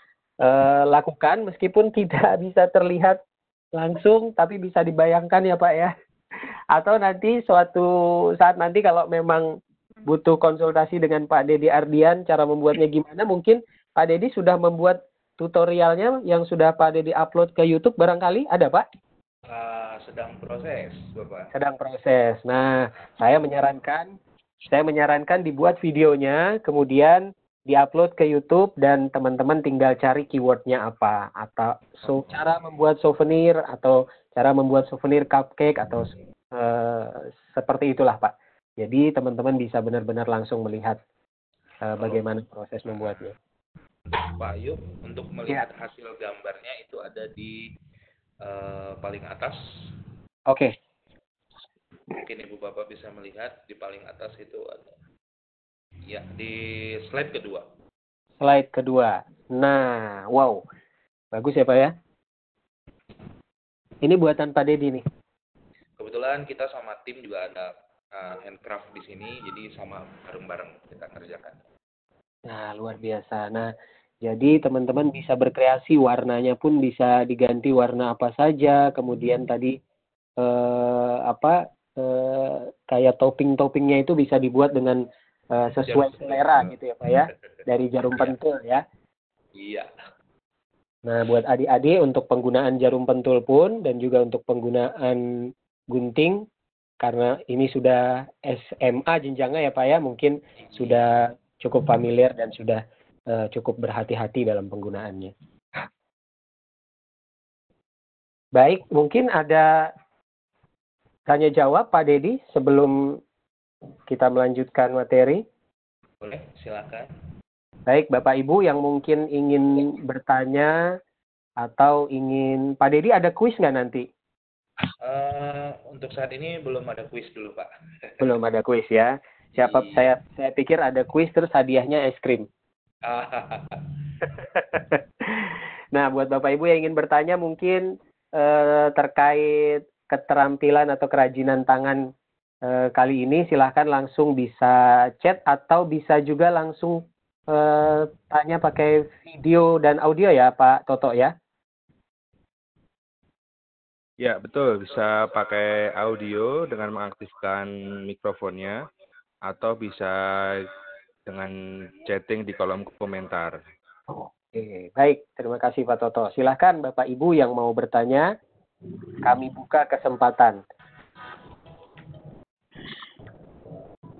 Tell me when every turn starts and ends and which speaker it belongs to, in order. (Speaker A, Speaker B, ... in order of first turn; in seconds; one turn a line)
Speaker A: 0.4-3.2
Speaker A: 3.8-5.9
Speaker A: 6.7-9.5
Speaker A: 10.1-18.9
Speaker B: 19.5-21.5
Speaker A: 21.5-24.1
Speaker A: 24.7-41.0
Speaker B: 32.0-32.5
Speaker A: 41.9-43.3
Speaker B: 42.0-42.2
Speaker B: 42.9-43.3
Speaker B: 44.3-47.6
Speaker B: 48.4-49.6
Speaker B: 52.2-55.0
Speaker B: 56.1-57.7
Speaker A: 58.4-60.6
Speaker A: 61.3-61.9
Speaker A: 64.0-65.0
Speaker B: 66.0-71.6
Speaker A: 72.5-73.7
Speaker A: 74.2-79.8
Speaker A: 80.4-88.8
Speaker B: 85.8-86.8
Speaker B: 87.3-88.4
Speaker B: 89.6-89.9
Speaker A: 91.1-95.2
Speaker A: 95.9-96.5
Speaker A: 97.0-105.3
Speaker A: 108.6-109.7
Speaker A: 111.3-113.2
Speaker A: 114.1-115.4
Speaker B: 116.2-117.1
Speaker A: 117.9-120.7
Speaker A: 121.6-124.0
Speaker B: 125.0-128.3
Speaker A: 128.2-132.5
Speaker B: 129.6-130.1
Speaker B: 133.1-134.3
Speaker A: 134.8-137.8
Speaker A: 138.4-142.0
Speaker A: 142.7-151.3
Speaker C: 154.2-158.8
Speaker C: 159.5-160.7
Speaker C: 161.3-161.5
Speaker C: 162.0-163.6
Speaker A: 164.5-168.3
Speaker A: 169.2-170.6